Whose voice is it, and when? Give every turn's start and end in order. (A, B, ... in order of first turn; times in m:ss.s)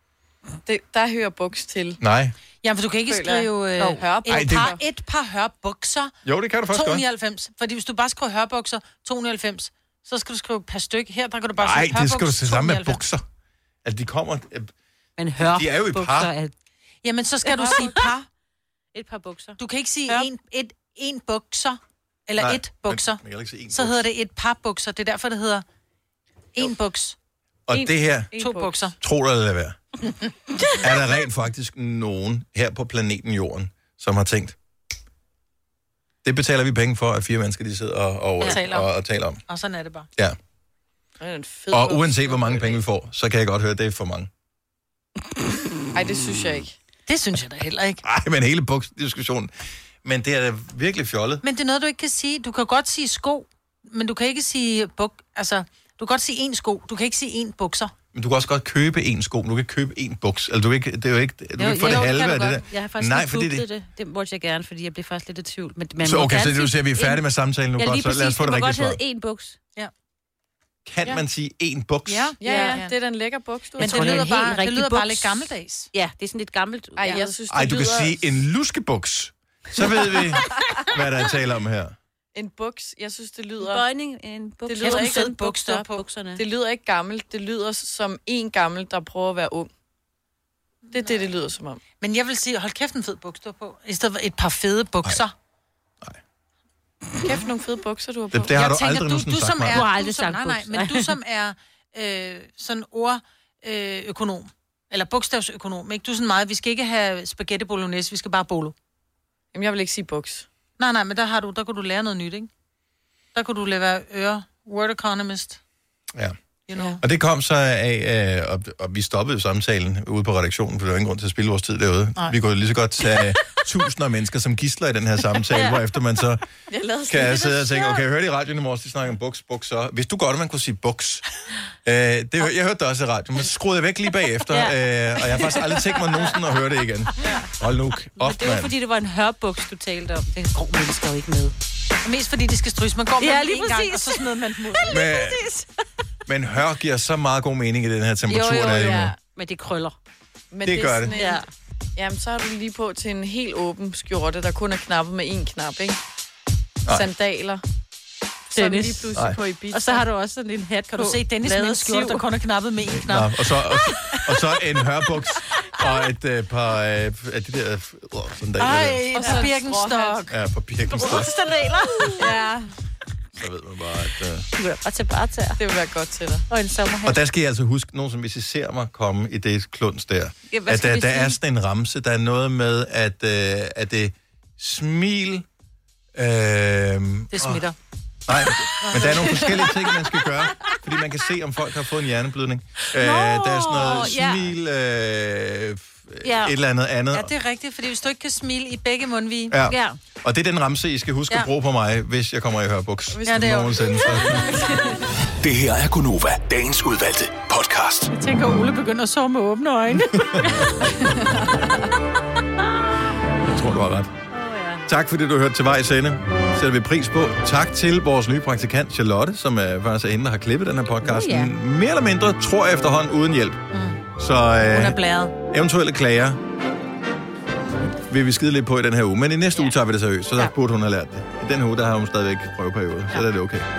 0:00.6-0:02.0 A
0:02.0-0:02.3 B
0:02.6-0:06.1 C
0:03.1-0:04.8 A
0:04.2-0:04.7 B
0:06.2-0:07.0 B
0:06.7-0:13.0 C
0:11.6-0:13.2 B
0:13.8-0:14.7 B
0:15.2-0:16.5 D
0:15.4-0:16.3 B
0:17.0-0:18.3 C
0:17.4-0:18.1 D
0:18.9-0:20.3 D
0:19.6-0:25.6 C
0:22.4-0:24.0 B
0:26.5-0:27.2 C
0:27.7-0:28.3 B
0:27.7-0:28.8 A
0:28.4-0:29.0 C
0:29.0-0:29.8 B
0:30.8-0:34.5 B
0:36.2-0:39.4 B
0:38.4-0:38.9 C
0:39.5-0:40.1 C
0:41.2-0:42.8 A
0:41.7-0:44.3 B
0:45.9-0:46.8 A
0:47.1-0:48.0 C
0:48.0-0:49.5 B
0:50.0-0:51.4 B
0:51.4-0:57.9 C
0:58.1-1:03.7 B
1:01.6-1:07.2 D
1:01.8-1:02.2 C
1:06.0-1:09.0 B
1:07.8-1:09.6 D
1:10.8-1:12.4 B
1:12.0-1:12.9 C
1:12.4-1:14.3 A
1:12.4-1:12.8 D
1:13.8-1:15.9 C
1:13.8-1:17.4 D
1:17.0-1:18.2 A
1:17.5-1:21.9 B
1:22.3-1:23.8 A
1:23.6-1:26.4 D
1:24.6-1:25.3 A
1:24.8-1:26.0 C
1:26.4-1:29.7 A
1:30.9-1:31.1 C
1:30.9-1:31.8 A
1:32.0-1:35.3 C
1:37.2-1:38.6 A
1:38.3-1:39.8 B
1:38.5-1:48.7 C
1:39.7-1:41.1 D
1:49.5-1:50.5 A
1:50.8-1:52.5 C
1:53.3-1:55.6 C
1:56.7-1:57.0 C
1:56.7-1:57.0 A
1:57.0-2:06.4 B
2:05.5-2:05.8 D
2:06.7-2:07.8 A
2:07.1-2:11.2 B
2:11.8-2:18.7 B
2:14.5-2:16.0 D
2:17.2-2:17.5 D
2:18.2-2:21.5 D
2:22.0-2:25.0 C
2:23.2-2:25.7 D
2:24.9-2:25.4 B
2:26.3-2:29.1 B
2:28.3-2:30.0 D
2:28.5-2:29.2 A
2:30.5-2:31.4 A
2:30.6-2:31.2 B
2:31.1-2:31.5 D
2:32.0-2:36.0 A
2:36.9-2:37.6 A
2:38.5-2:40.0 A
2:38.5-2:39.1 D
2:39.7-2:42.2 D
2:40.9-2:43.9 C
2:42.9-2:49.1 B
2:48.6-2:50.3 C
2:49.1-2:50.3 A
2:50.3-2:51.3 B
2:50.9-2:52.5 D
2:52.2-2:52.6 A
2:53.3-2:54.5 B
2:54.6-2:55.6 D
2:55.6-2:56.4 A
2:56.5-2:57.2 D
2:57.0-3:05.4 B
3:00.5-3:01.4 D
3:06.1-3:07.6 B
3:07.3-3:07.8 C
3:08.3-3:17.3 B
3:08.8-3:09.7 C
3:13.0-3:14.5 D
3:16.2-3:16.5 D
3:17.1-3:19.5 C
3:19.5-3:24.4 B
3:19.6-3:20.0 D
3:23.1-3:25.0 A
3:23.2-3:24.4 C
3:25.4-3:28.1 E
3:28.1-3:30.7 C
3:30.2-3:30.7 B
3:30.8-3:31.9 A
3:33.4-3:34.1 B
3:34.3-3:34.8 D
3:34.9-3:43.6 B
3:41.1-3:41.5 D
3:43.7-3:44.0 C
3:44.2-3:45.0 B
3:44.7-3:45.3 C
3:45.5-3:46.4 B
3:48.0-3:53.6 B